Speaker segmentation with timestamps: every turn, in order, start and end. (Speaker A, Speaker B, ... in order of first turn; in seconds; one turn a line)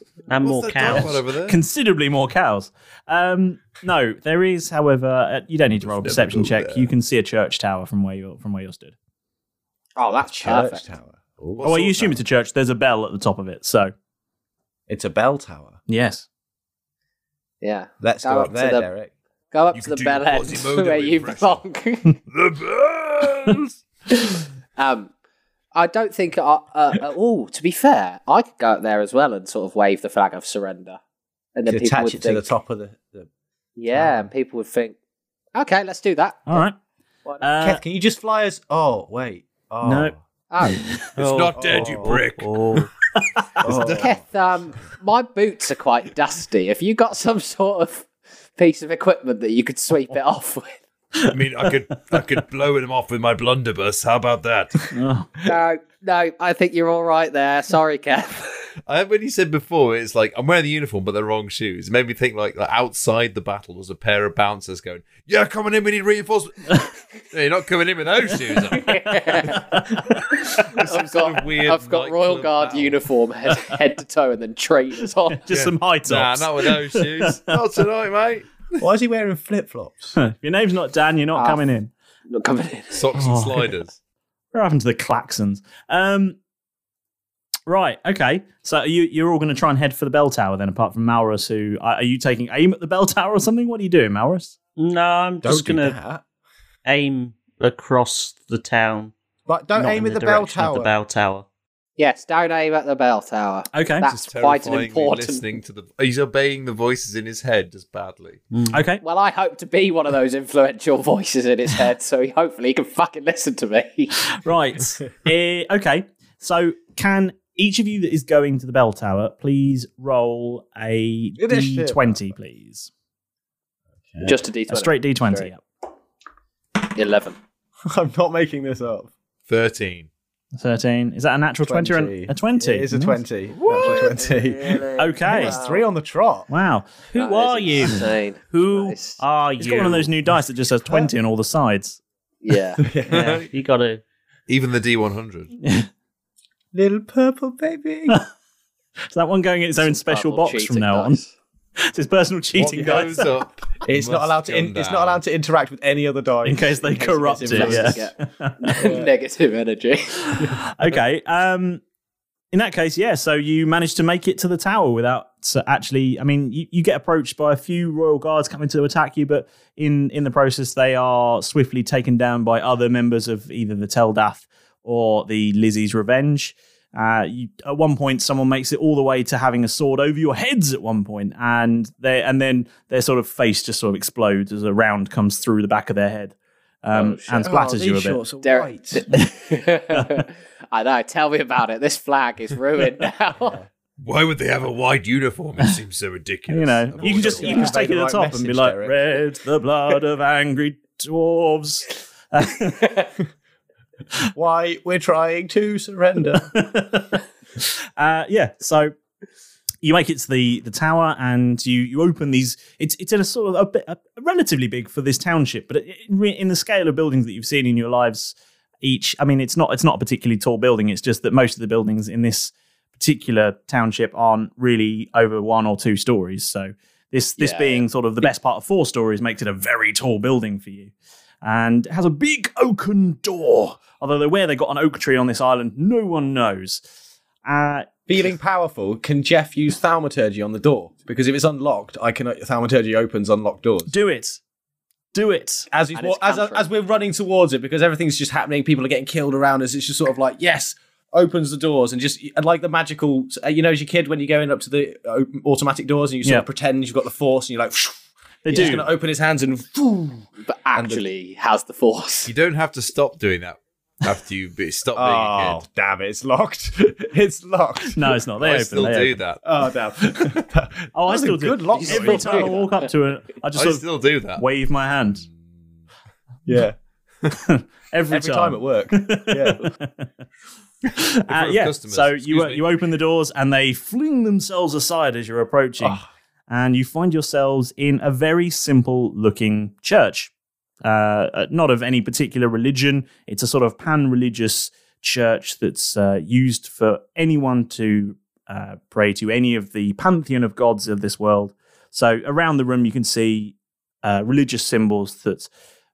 Speaker A: 0.3-1.2
Speaker B: 0.4-1.6
Speaker C: 0.8-8.9
Speaker B: 5.8-6.9
Speaker D: 10.0-10.8
Speaker E: 10.2-12.2
Speaker B: 11.6-11.9
Speaker C: 11.6-13.9
Speaker E: 14.9-15.8
Speaker C: 15.9-16.3
Speaker D: 17.6-18.9
Speaker E: 18.0-19.1
Speaker D: 19.5-22.1
Speaker B: 19.7-21.6
Speaker B: 22.3-23.7
Speaker D: 24.8-25.1
Speaker D: 25.7-31.0
Speaker D: 31.6-32.5
Speaker E: 31.7-33.3
Speaker D: 33.8-35.0
Speaker E: 33.9-34.3
Speaker D: 35.5-36.6
Speaker C: 36.5-36.7
Speaker C: 37.4-37.8
Speaker E: 37.6-40.2
Speaker C: 39.8-41.2
Speaker D: 40.5-40.8
Speaker B: 41.2-42.5
Speaker A: 41.2-42.2
Speaker E: 41.5-42.2
Speaker C: 41.8-43.6
Speaker E: 43.6-44.2
Speaker B: 43.7-44.1
Speaker D: 44.0-50.8
Speaker B: 51.3-54.8
Speaker C: 54.9-55.3
Speaker D: 55.5-58.5
Speaker B: 58.9-69.5
Speaker D: 68.8-69.6
Speaker C: 69.5-70.3
Speaker D: 70.5-75.5
Speaker B: 70.7-73.0
Speaker C: 75.4-77.6
Speaker B: 75.5-78.6
Speaker E: 78.8-80.2
Speaker C: 80.2-81.9
Speaker D: 81.4-81.6
Speaker D: 82.3-83.0
Speaker B: 82.9-83.9
Speaker C: 83.1-83.7
Speaker C: 84.5-86.4
Speaker C: 87.7-94.5
Speaker A: 94.8-96.0
Speaker E: 95.4-96.2
Speaker A: 96.8-99.1
Speaker E: 99.5-100.9
Speaker A: 99.8-101.5
Speaker D: 102.0-105.5
Speaker C: 103.7-104.1
Speaker B: 104.1-108.4
Speaker A: 108.5-108.8
Speaker C: 108.7-109.0
Speaker D: 109.0-114.2
Speaker C: 114.3-122.9
Speaker E: 121.4-122.3
Speaker E: 124.1-124.4
Speaker D: 124.2-125.5
Speaker C: 124.7-125.6
Speaker D: 126.8-127.4
Speaker E: 127.8-129.1
Speaker B: 129.5-130.1
Speaker C: 130.6-133.2
Speaker E: 131.6-136.5
Speaker B: 133.6-134.0
Speaker D: 133.8-135.8
Speaker C: 135.0-135.6
Speaker C: 136.5-137.0
Speaker A: 137.1-138.0
Speaker D: 137.1-139.2
Speaker A: 138.7-140.1
Speaker C: 139.6-142.0
Speaker D: 142.4-142.8
Speaker E: 142.8-143.4
Speaker A: 143.1-144.0
Speaker B: 143.1-143.5
Speaker B: 144.5-145.5
Speaker C: 145.6-145.9
Speaker E: 146.7-148.2
Speaker C: 149.1-151.2
Speaker D: 149.8-151.3
Speaker C: 151.8-153.3
Speaker B: 152.6-155.2
Speaker E: 152.7-153.1
Speaker E: 153.8-158.1
Speaker C: 156.4-158.7
Speaker D: 157.4-160.1
Speaker E: 158.8-159.1
Speaker C: 160.3-161.8
Speaker C: 162.5-188.2
Speaker D: 186.9-187.5
Speaker E: 187.4-189.0
Speaker D: 188.4-193.6
Speaker C: 189.9-190.2
Speaker B: 194.0-197.7
Speaker C: 196.5-202.9
Speaker E: 196.9-199.0
Speaker E: 204.3-206.5
Speaker C: 206.4-208.9
Speaker C: 209.8-230.9
Speaker D: 227.4-227.8
Speaker C: 231.4-236.8
Speaker C: 237.4-237.9
Speaker E: 238.1-243.9
Speaker C: 243.9-244.4
Speaker C: 245.1-245.7
Speaker E: 245.7-261.1
Speaker D: 245.9-246.7
Speaker C: 258.4-258.9
Speaker D: 260.4-262.3
Speaker B: 262.3-265.6
Speaker E: 264.9-268.1
Speaker C: 267.9-269.2
Speaker B: 268.4-269.4
Speaker E: 269.4-272.6
Speaker C: 270.9-275.2
Speaker D: 271.7-272.9
Speaker B: 273.6-274.4
Speaker E: 276.4-276.8
Speaker C: 277.3-280.1
Speaker E: 278.1-279.6
Speaker C: 281.0-290.3
Speaker B: 281.3-282.7
Speaker E: 285.8-286.1
Speaker C: 290.8-305.5